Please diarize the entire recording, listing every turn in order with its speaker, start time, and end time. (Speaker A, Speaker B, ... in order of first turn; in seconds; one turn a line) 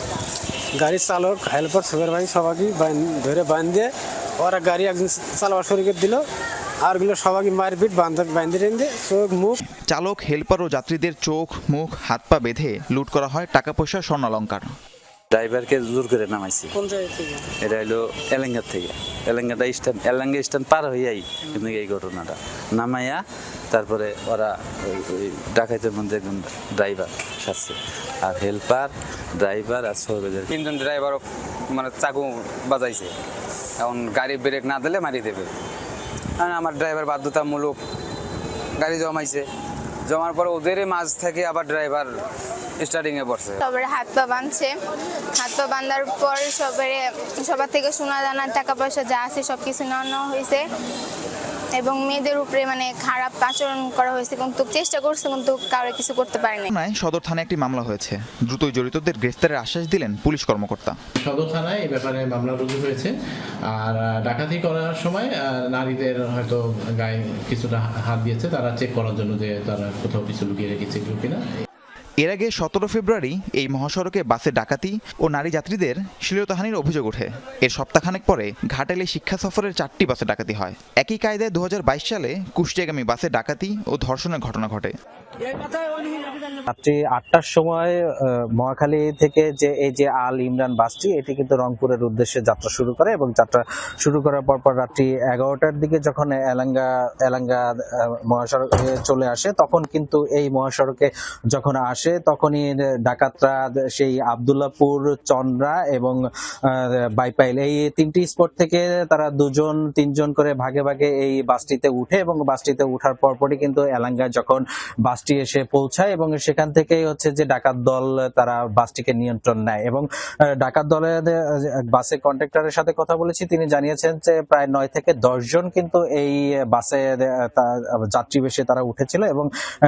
Speaker A: 0.8-6.2
Speaker A: 6.8-9.6
Speaker B: 9.9-14.7
Speaker C: 15.3-16.8
Speaker A: 16.8-17.4
Speaker C: 17.6-30.5
Speaker D: 30.5-33.2
Speaker D: 33.8-35.5
Speaker D: 36.4-37.8
Speaker D: 38.8-39.5
Speaker D: 40.1-42.2
Speaker D: 42.8-43.6
Speaker E: 43.6-44.7
Speaker E: 45.4-50.6
Speaker E: 51.8-56.7
Speaker B: 56.7-61.0
Speaker F: 61.2-63.1
Speaker F: 63.7-71.4
Speaker B: 72.2-84.9
Speaker G: 86.7-106.2
Speaker G: 106.7-129.5